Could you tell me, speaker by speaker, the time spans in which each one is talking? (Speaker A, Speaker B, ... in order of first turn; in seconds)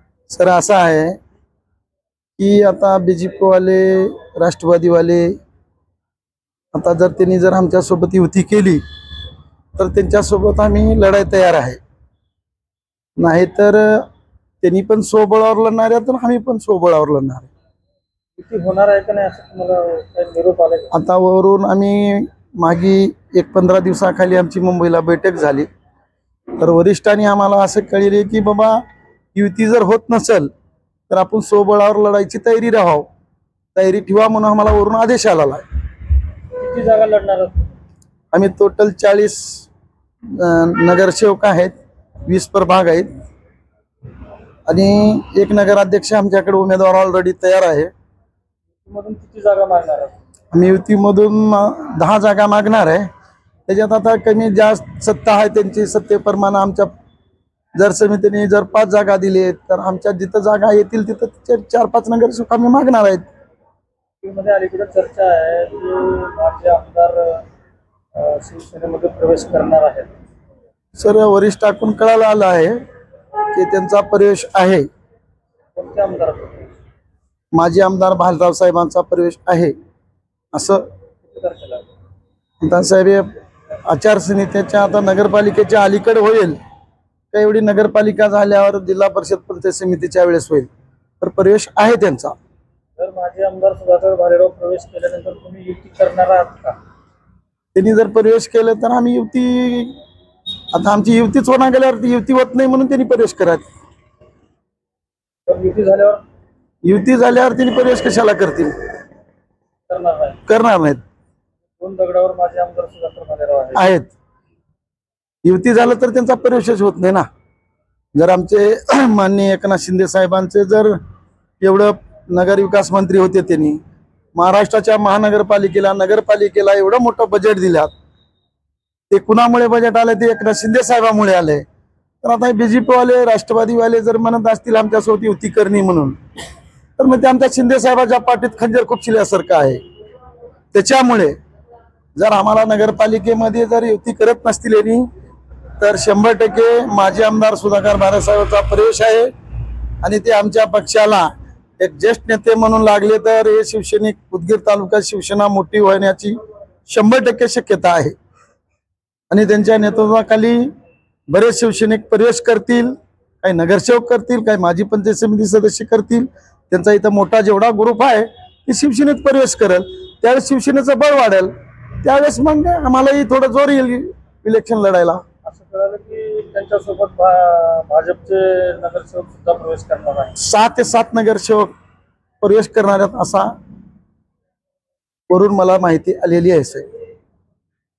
Speaker A: 0.3-1.2, 2.4-5.4, 6.7-8.8, 9.8-11.8, 13.2-14.1, 14.6-17.5, 20.9-25.7, 26.6-28.8, 29.3-30.5, 31.1-33.1, 33.8-35.6, 38.3-39.7, 40.3-43.1, 44.7-47.9, 50.5-53.1, 53.7-56.9, 57.8-63.3, 71.0-72.8, 73.5-74.9, 77.5-79.7, 80.5-80.8, 82.6-83.3, 83.9-86.6, 87.3-90.7, 91.2-92.3, 97.8-100.0, 100.7-103.6, 106.8-108.8, 110.5-111.0, 113.8-114.1, 115.5-117.2, 118.1-121.0, 121.6-123.8, 124.3-127.9, 129.1-131.7, 132.2-136.2, 137.0-139.8, 140.7-141.3, 142.2-145.1, 145.8-149.3, 150.0-151.3, 151.8-156.4, 156.9-158.2, 159.3-160.7, 161.3-175.2, 180.4-181.7, 182.4-183.5, 185.3-186.9
Speaker B: 18.4-20.9, 36.6-37.8, 48.9-50.1, 64.2-67.4, 68.2-70.1, 75.8-76.7, 81.2-81.9, 93.0-96.8, 105.5-106.2, 109.9-110.4, 111.8-113.9, 175.4-180.4